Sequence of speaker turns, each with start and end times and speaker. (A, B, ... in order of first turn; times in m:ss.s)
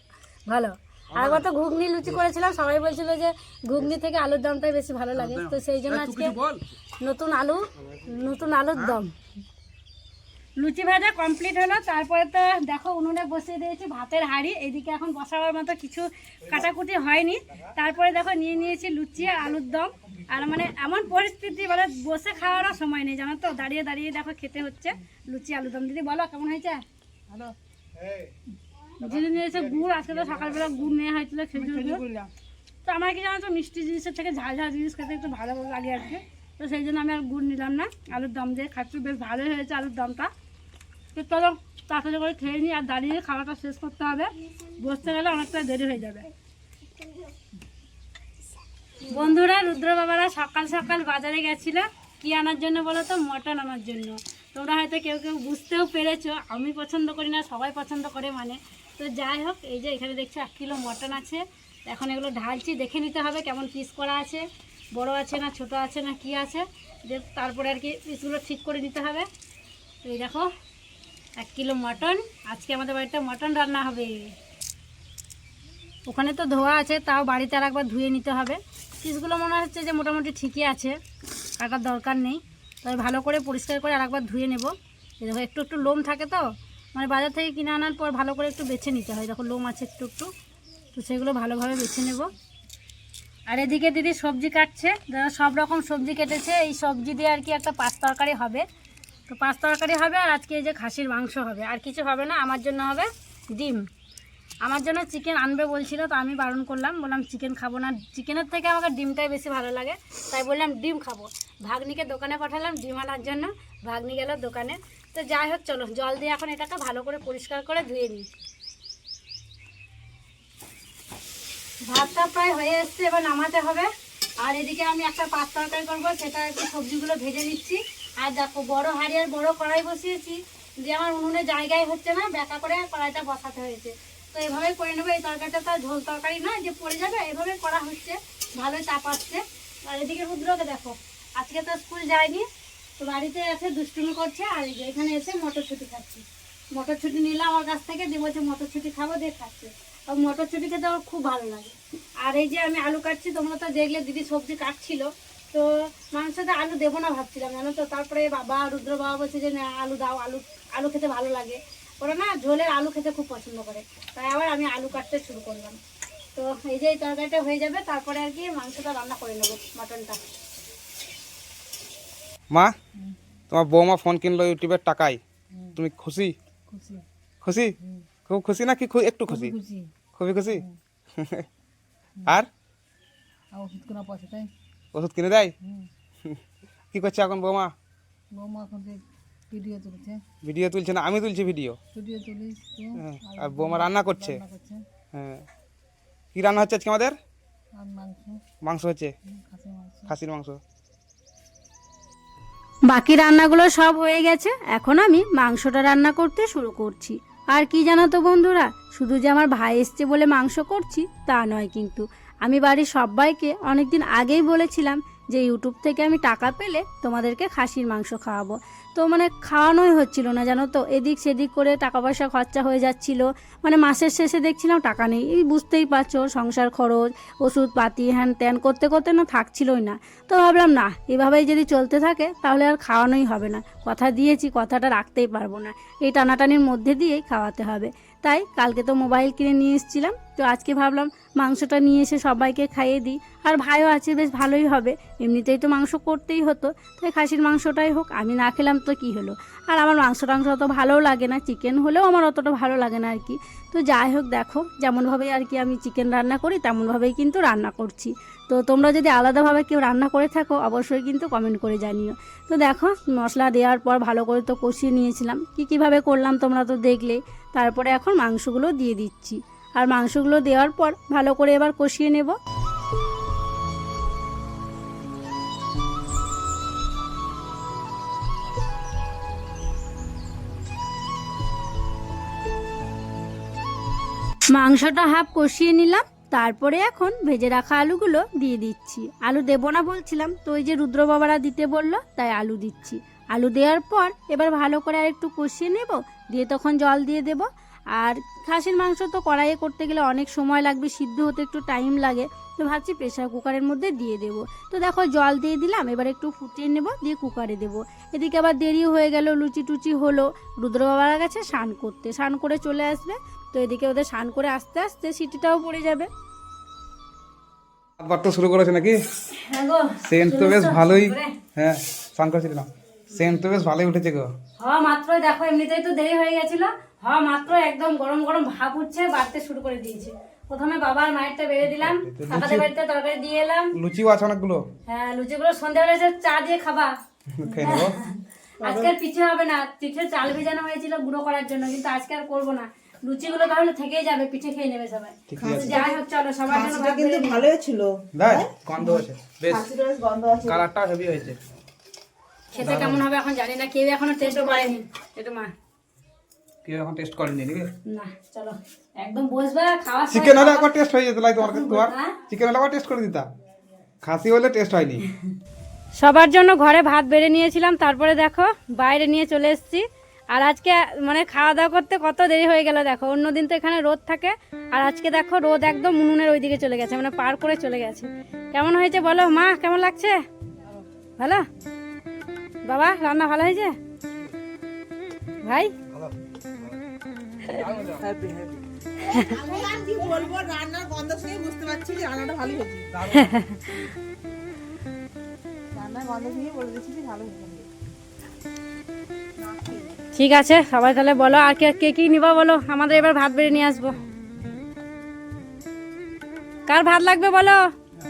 0:00.5-0:06.4 A
0:01.1-0:01.5 B
0:05.1-0:06.6 B
0:07.0-0:09.1 A
0:08.8-0:09.0 B
0:10.6-0:26.8 A
0:29.0-0:32.0 A
0:31.6-0:32.3 C
0:32.8-0:40.3 A
0:41.1-0:46.3 A
0:49.0-1:09.3 A
1:10.0-1:10.5 A
1:11.4-1:14.3 A
1:16.1-1:21.0 A
1:21.6-1:30.3 A
1:30.9-1:32.3 A
1:33.5-1:38.7 A
1:39.3-1:43.8 A
1:44.6-1:58.3 A
2:01.9-2:22.5 A
2:23.0-2:45.8 A
2:46.4-2:50.2 A
2:53.5-2:55.2 B
2:55.8-2:56.3 B
2:56.8-2:57.0 C
2:57.4-2:57.8 B
2:58.3-2:59.6 B
2:59.3-2:59.9 C
3:00.2-3:00.6 B
3:01.2-3:01.5 B
3:03.5-3:04.5 C
3:04.9-3:05.5 B
3:05.6-3:05.9 C
3:06.9-3:07.7 B
3:08.3-3:10.2 C
3:10.4-3:11.8 B
3:11.9-3:14.8 C
3:13.0-3:14.4 B
3:15.1-3:15.5 B
3:16.3-3:17.2 B
3:17.8-3:18.4 C
3:18.6-3:19.1 B
3:19.3-3:20.1 C
3:20.1-3:20.6 B
3:22.9-4:32.4 A
4:44.5-5:16.1 A
5:18.0-5:19.0 B
5:19.3-5:21.4 A
5:20.0-5:24.3 B
5:24.6-5:33.8 A
5:31.8-5:32.7 B
5:33.8-5:34.6 B
5:34.9-5:36.9 A
5:37.4-5:38.0 B
5:37.6-5:47.5 A
5:38.6-5:38.9 D
5:45.3-5:45.8 B
5:45.4-5:45.8 D
5:46.5-5:48.5 D
5:48.2-5:49.7 B
5:49.5-5:50.6 D
5:50.4-5:51.4 B
5:52.5-5:55.5 A
5:52.6-5:53.0 B
5:56.6-5:57.7 B
5:57.9-6:00.7 A
6:00.1-6:03.3 B
6:01.4-6:02.2 A
6:04.0-6:05.0 B
6:06.0-6:20.2 A
6:21.2-6:21.5 A
6:22.6-6:23.8 A
6:25.4-6:25.7 A
6:27.5-6:28.6 B
6:29.0-6:29.4 A
6:29.2-6:33.1 D
6:33.1-6:33.9 A
6:35.8-6:37.7 D
6:40.1-6:44.0 A
6:46.7-6:47.6 A